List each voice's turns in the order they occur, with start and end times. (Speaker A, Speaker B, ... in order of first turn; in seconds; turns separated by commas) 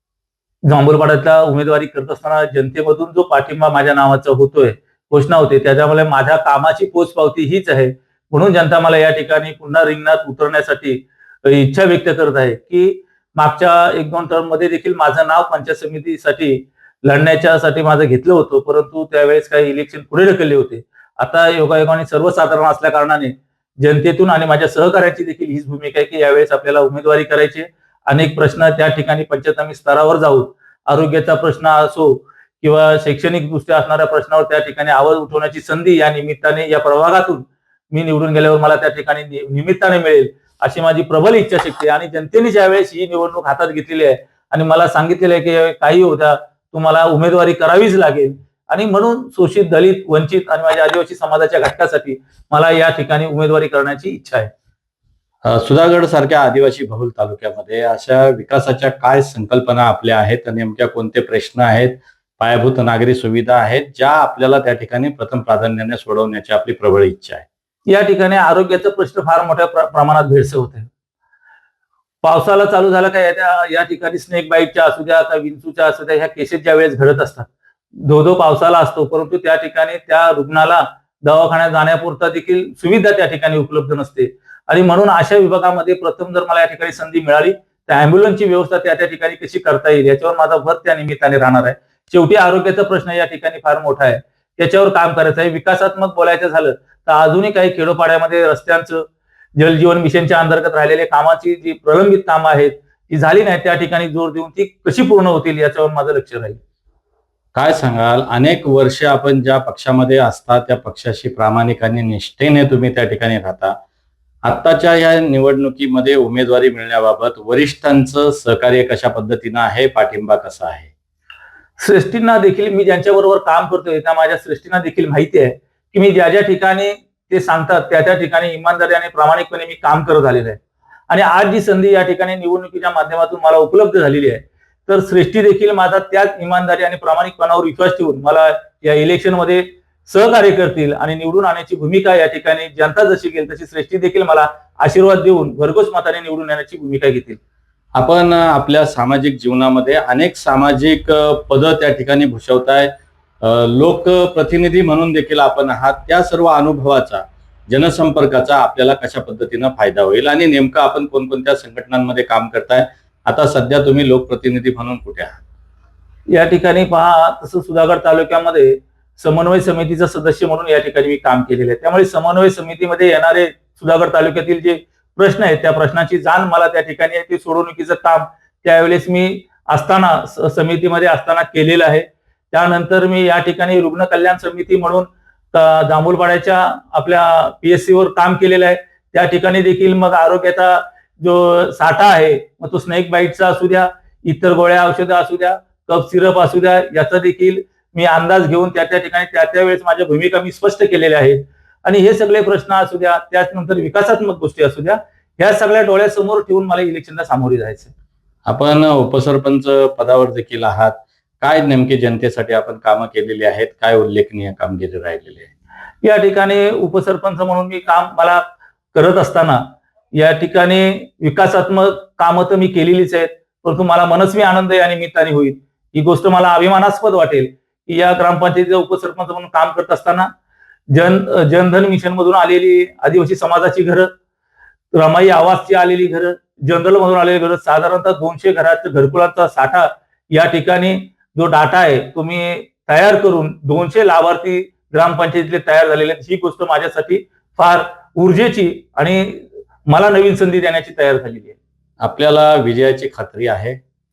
Speaker A: 0.7-54.5, Speaker B: 55.4-67.5, Speaker A: 67.9-70.9, Speaker A: 72.2-77.5, Speaker A: 78.0-106.6, Speaker B: 107.5-113.8, Speaker B: 114.4-120.9, Speaker A: 121.8-147.4, Speaker B: 147.9-165.4, Speaker A: 166.3-207.9, Speaker B: 208.4-215.5, Speaker A: 216.0-218.4, Speaker A: 218.9-230.3, Speaker A: 230.9-234.1, Speaker A: 234.9-251.6, Speaker B: 252.0-253.8